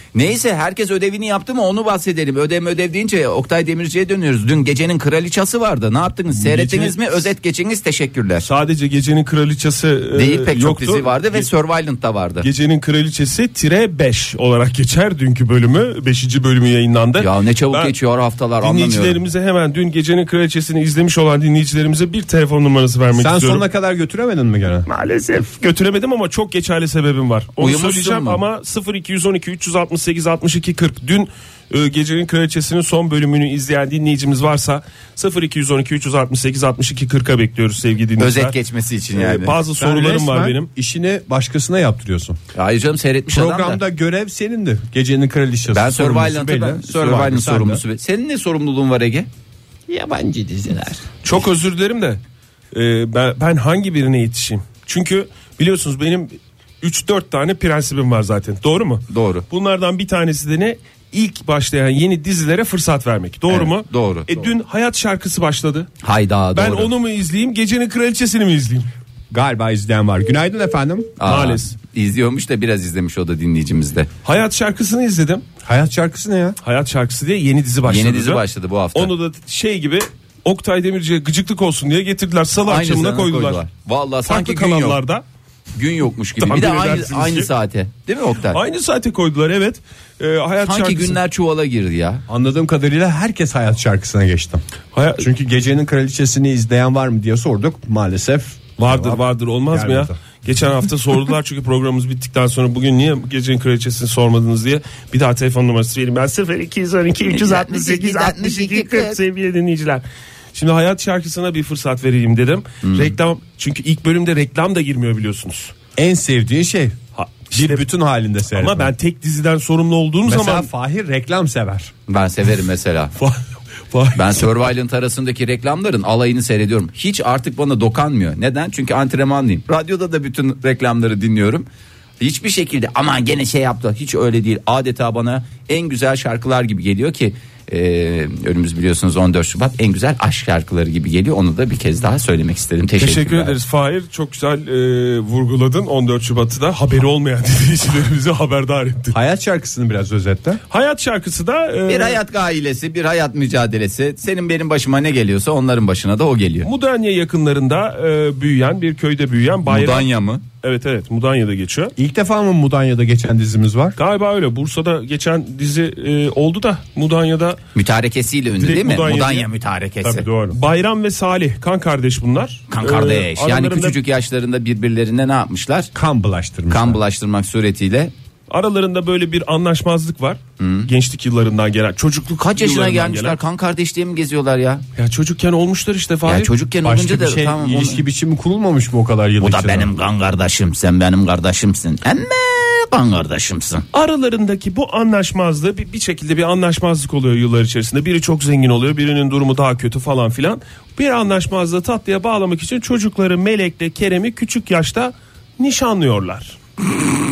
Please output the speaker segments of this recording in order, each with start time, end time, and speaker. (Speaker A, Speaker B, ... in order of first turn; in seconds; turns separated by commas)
Speaker A: 0.1-8.4, Speaker B: 6.3-7.2, Speaker B: 8.4-11.5, Speaker A: 10.1-12.5, Speaker B: 12.4-17.9, Speaker A: 17.2-19.2, Speaker B: 18.6-23.6, Speaker C: 23.1-24.9, Speaker B: 24.9-38.5, Speaker A: 27.6-28.4, Speaker A: 38.2-39.6, Speaker B: 39.1-40.7, Speaker C: 39.8-42.4, Speaker A: 42.5-43.8, Speaker C: 43.3-47.8, Speaker A: 45.7-49.3, Speaker C: 49.9-51.0, Speaker B: 51.2-52.2, Speaker B: 52.7-65.9, Speaker A: 59.1-59.4, Speaker A: 63.5-64.3, Speaker A: 66.0-66.9, Speaker B: 66.5-68.9, Speaker C: 69.3-71.1, Speaker A: 71.2-74.1, Speaker B: 71.2-71.7, Speaker B: 74.2-75.4, Speaker C: 75.6-76.6, Speaker B: 76.6-78.4, Speaker A: 77.9-79.1, Speaker B: 78.9-83.6, Speaker A: 82.7-85.0, Speaker B: 84.2-85.2, Speaker A: 85.8-88.6, Speaker B: 86.4-87.5, Speaker B: 88.5-91.2, Speaker A: 90.6-92.2, Speaker C: 92.3-94.6, Speaker B: 94.9-95.2, Speaker C: 95.2-100.2, Speaker B: 98.8-110.0, Speaker A: 107.3-109.2, Speaker B: 110.5-115.7, Speaker A: 112.8-113.1, Speaker C: 116.0-117.0, Speaker B: 117.2-117.8, Speaker C: 117.5-118.9, Speaker B: 118.5-120.7, Speaker C: 120.2-121.9, Speaker A: 122.1-123.1, Speaker B: 123.9-124.5, Speaker A: 124.1-131.7, Speaker A: 132.2-143.5, Speaker B: 143.0-149.1, Speaker C: 149.1-150.6, Speaker B: 150.7-152.2, Speaker A: 151.9-156.7, Speaker B: 156.6-161.9, Speaker A: 159.7-160.4, Speaker C: 161.9-164.0, Speaker B: 164.0-167.6, Speaker A: 167.7-170.3, Speaker B: 168.6-169.5, Speaker B: 170.0-174.0, Speaker C: 170.2-170.5, Speaker A: 172.7-175.9, Speaker C: 175.9-177.0, Speaker A: 176.7-178.1, Speaker B: 178.5-183.4, Speaker A: 180.6-180.9, Speaker A: 182.4-184.8, Speaker B: 184.9-186.5, Speaker A: 186.2-188.0, Speaker C: 186.8-189.9, Speaker A: 189.4-193.8, Speaker B: 193.9-206.6